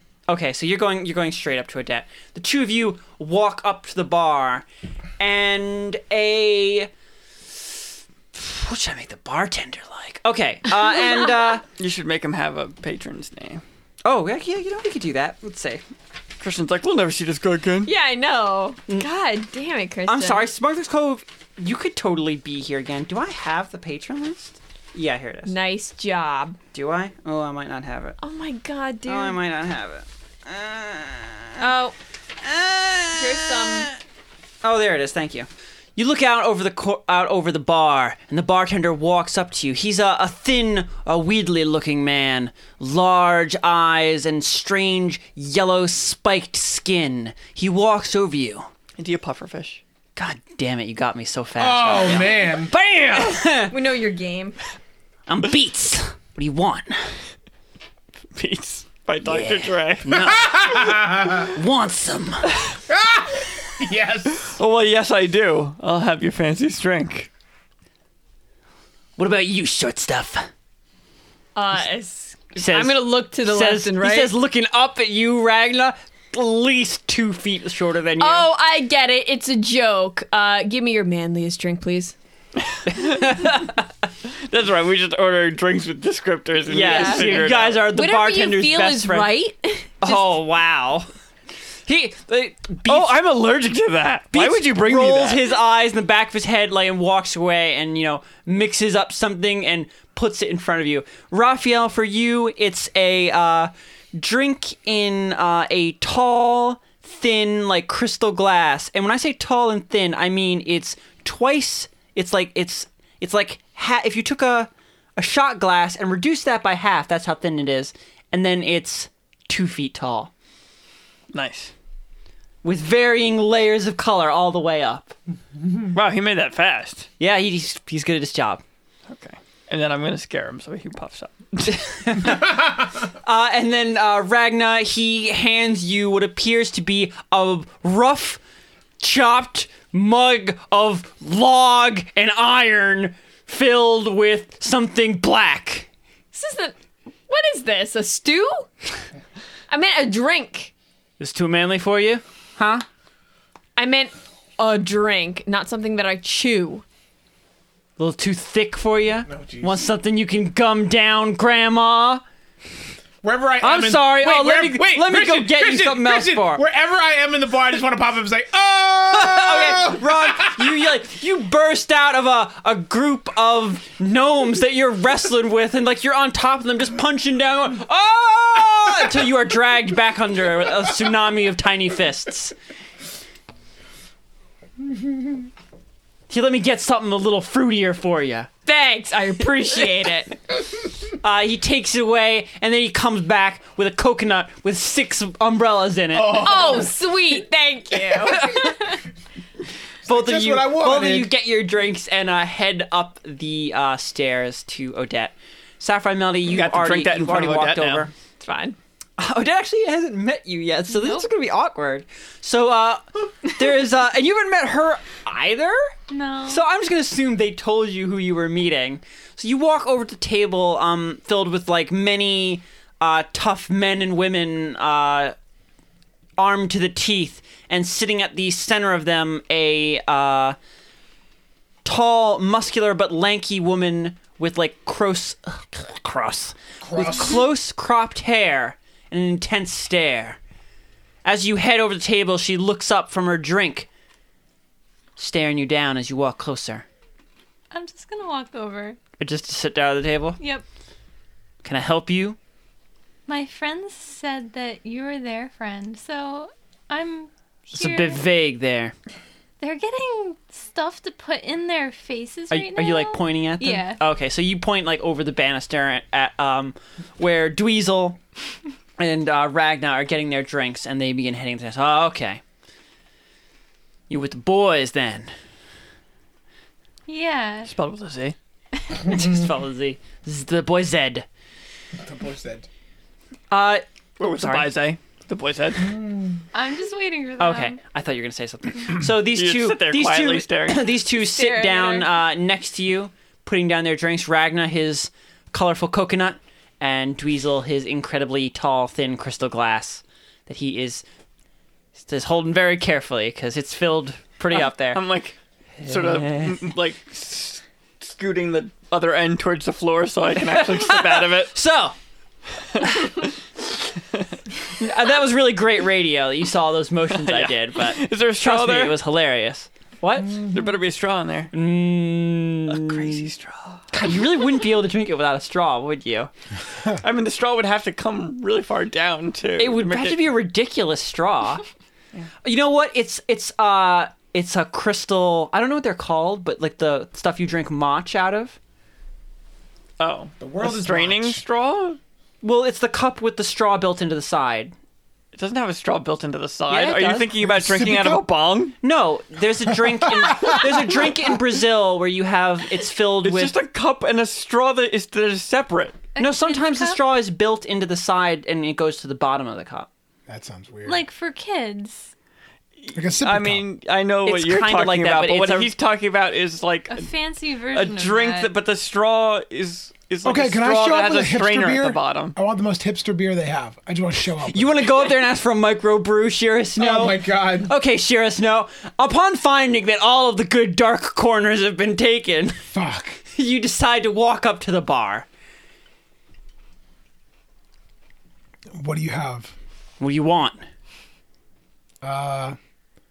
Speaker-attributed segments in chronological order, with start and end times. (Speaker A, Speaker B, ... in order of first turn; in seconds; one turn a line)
Speaker A: 0.3-4.7
Speaker A: 5.2-6.9
Speaker A: 8.3-11.6
Speaker B: 11.8-13.6
Speaker A: 14.1-15.8
Speaker B: 16.4-17.9
Speaker C: 17.9-20.5
Speaker A: 20.1-25.6
Speaker C: 25.5-26.6
Speaker A: 26.7-28.2
Speaker C: 28.2-29.4
Speaker A: 29.1-31.6
Speaker C: 31.6-31.9
Speaker A: 32.4-34.0
Speaker C: 33.2-33.9
Speaker A: 34.6-48.7
Speaker B: 49.0-49.8
Speaker A: 50.2-53.7
Speaker D: 51.6-52.7
Speaker C: 53.2-54.6
Speaker A: 55.3-57.1
Speaker B: 58.4-60.5
Speaker A: 59.2-62.5
Speaker D: 60.4-61.5
Speaker D: 62.9-64.5
Speaker B: 64.4-67.3
Speaker A: 69.2-70.5
Speaker C: 71.6-74.3
Speaker A: 72.6-78.5
Speaker C: 78.2-82.2
Speaker B: 82.6-83.5
Speaker A: 82.9-83.8
Speaker B: 84.3-87.9
Speaker A: 86.7-89.3
Speaker C: 86.8-90.4
Speaker A: 90.0-91.1
Speaker A: 91.9-93.2
Speaker B: 92.9-95.6
Speaker A: 94.3-120.3
Speaker B: 121.3-121.7
Speaker A: 122.6-125.2
Speaker B: 125.9-127.1
Speaker A: 127.2-128.6
Speaker B: 129.1-132.2
Speaker A: 131.7-138.4
Speaker A: 139.0-145.9
Speaker C: 146.3-146.8
Speaker C: 147.3-148.7
Speaker C: 149.7-150.7
Speaker A: 151.2-152.8
Speaker C: 153.8-156.8
Speaker A: 158.0-162.2
Speaker D: 159.3-159.8
Speaker D: 163.2-170.7
Speaker A: 163.6-166.7
Speaker A: 169.1-182.6
Speaker A: 186.3-188.5
Speaker C: 188.7-190.5
Speaker A: 191.2-196.9
Speaker D: 196.1-196.9
Speaker C: 196.3-199.0
Speaker A: 198.3-198.8
Speaker D: 200.1-201.3
Speaker A: 200.1-208.1
Speaker B: 206.5-208.1
Speaker C: 208.4-208.8
Speaker A: 209.2-215.8
Speaker E: 210.9-211.3
Speaker E: 216.1-216.6
Speaker A: 216.5-225.3
Speaker A: 226.4-230.6
Speaker A: 231.8-240.4
Speaker D: 236.9-237.4
Speaker F: 236.9-237.4
Speaker A: 241.2-243.9
Speaker A: 245.2-246.9
Speaker E: 247.7-249.0
Speaker A: 249.2-250.4
Speaker E: 250.4-250.7
Speaker A: 251.6-252.4
Speaker E: 253.3-258.2
Speaker A: 257.7-258.9
Speaker E: 259.6-264.0
Speaker A: 262.5-268.2
Speaker A: 269.0-272.4
Speaker A: 274.1-275.3
Speaker E: 277.1-277.7
Speaker B: 277.7-278.4
Speaker E: 278.8-279.1
Speaker A: 279.1-281.3
Speaker D: 282.0-282.7
Speaker A: 283.5-284.7
Speaker B: 284.2-285.9
Speaker D: 285.9-286.4
Speaker E: 286.5-287.8
Speaker A: 287.4-301.0
Speaker B: 289.1-290.9
Speaker E: 291.2-292.1
Speaker A: 302.0-305.0
Speaker B: 304.5-311.6
Speaker A: 305.8-306.8
Speaker A: 310.4-311.9
Speaker B: 312.6-313.3
Speaker A: 314.8-320.4
Speaker B: 317.1-319.0
Speaker B: 320.5-321.5
Speaker A: 321.5-323.3
Speaker B: 322.7-323.9
Speaker A: 323.9-326.3
Speaker B: 327.0-330.3
Speaker A: 329.6-331.6
Speaker A: 332.4-338.6
Speaker B: 340.0-342.0
Speaker D: 340.4-341.4
Speaker A: 342.4-344.7
Speaker B: 345.3-348.8
Speaker A: 346.7-347.3
Speaker F: 347.4-348.3
Speaker A: 348.8-353.6
Speaker F: 349.7-350.6
Speaker B: 353.2-356.1
Speaker E: 356.1-357.1
Speaker A: 356.2-359.9
Speaker F: 360.3-361.1
Speaker E: 360.9-362.1
Speaker B: 362.8-367.1
Speaker F: 362.9-363.7
Speaker A: 364.3-365.7
Speaker E: 366.9-368.5
Speaker B: 367.7-372.4
Speaker F: 370.2-374.8
Speaker A: 374.5-382.7
Speaker D: 376.8-377.7
Speaker F: 382.7-383.2
Speaker A: 383.3-385.3
Speaker F: 388.8-389.5
Speaker A: 390.0-390.6
Speaker F: 392.0-392.6